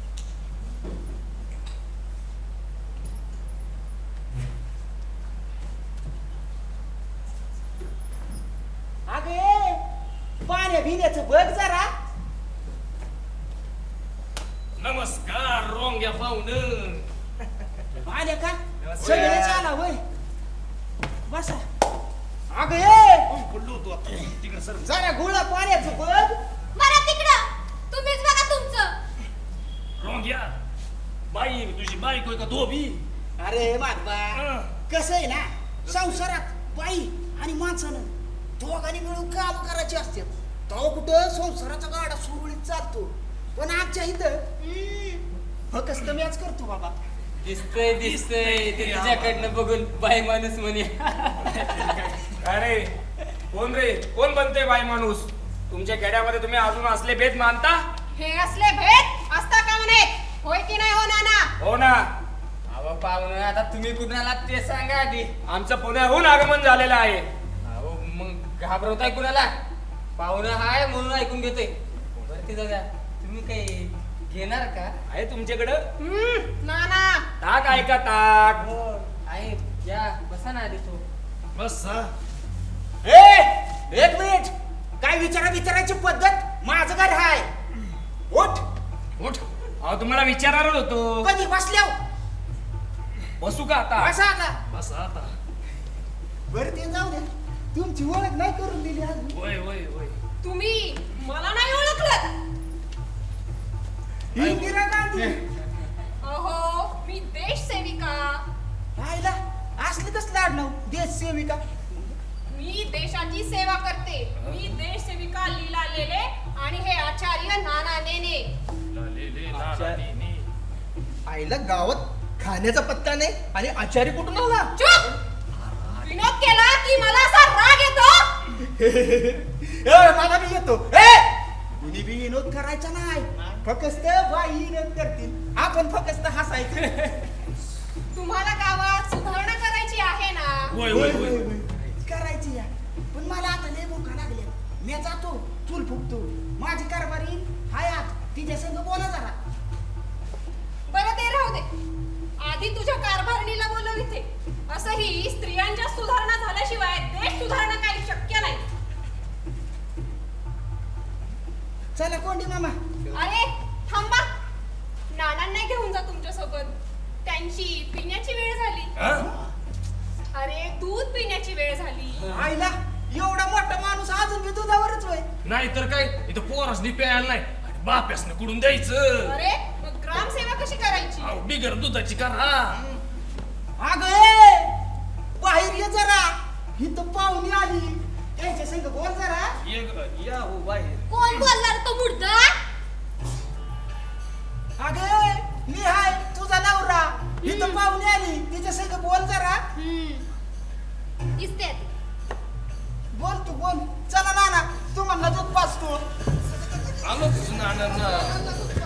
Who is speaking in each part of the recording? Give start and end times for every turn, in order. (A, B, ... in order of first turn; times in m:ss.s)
0:09.1-0:09.8 A
0:10.4-0:11.9 A
0:14.8-0:17.1 B
0:18.0-0:20.0 A
0:18.8-0:19.7 B
0:21.3-0:21.6 A
0:22.5-0:23.3 A
0:23.3-0:24.9 B
0:24.8-0:26.3 A
0:26.7-0:29.0 C
0:30.0-0:30.5 B
0:31.3-0:33.0 B
0:33.4-0:44.5 A
0:34.3-0:34.7 B
0:35.9-0:36.2 B
0:44.6-0:45.2 C
0:45.7-0:46.9 A
0:47.4-0:52.3 D
0:47.8-0:49.6 B
0:52.4-0:52.9 E
0:53.5-0:57.8 E
0:58.1-1:01.5 F
1:01.6-1:02.1 E
1:02.7-1:05.3 D
1:05.5-1:07.2 E
1:07.6-1:09.5 D
1:10.2-1:14.9 D
1:15.1-1:15.8 E
1:16.0-1:17.2 F
1:17.4-1:18.6 E
1:18.6-1:21.0 D
1:21.5-1:22.1 B
1:23.0-1:27.5 A
1:28.3-1:28.6 A
1:29.8-1:31.3 E
1:31.2-1:32.0 A
1:33.4-1:34.1 E
1:34.0-1:34.6 A
1:34.7-1:35.3 B
1:36.5-1:39.4 A
1:39.3-1:40.2 B
1:40.4-1:42.4 F
1:44.3-1:44.8 B
1:44.3-1:45.4 A
1:46.2-1:48.4 F
1:49.0-1:52.2 A
1:52.5-1:58.5 F
1:54.4-1:54.7 B
1:58.9-2:00.5 B
1:59.5-2:00.0 G
2:01.3-2:04.7 G
2:04.8-2:05.1 F
2:05.6-2:06.2 B
2:06.0-2:08.3 F
2:08.8-2:17.3 A
2:18.1-2:20.8 F
2:20.7-2:21.5 B
2:20.9-2:29.4 A
2:30.9-2:31.7 F
2:32.4-2:38.6 F
2:41.9-2:42.8 A
2:43.1-2:44.3 F
2:45.1-2:48.9 F
2:49.0-2:49.3 B
2:50.3-2:52.3 F
2:52.3-2:55.2 A
2:55.4-2:59.3 B
2:59.2-3:01.4 F
3:01.2-3:02.8 B
3:03.8-3:04.7 A
3:05.4-3:09.6 A
3:09.6-3:11.0 B
3:11.1-3:12.6 C
3:14.8-3:19.6 A
3:17.4-3:17.8 C
3:19.7-3:20.2 C
3:21.4-3:21.8 C
3:23.1-3:26.0 A
3:27.0-3:28.4 B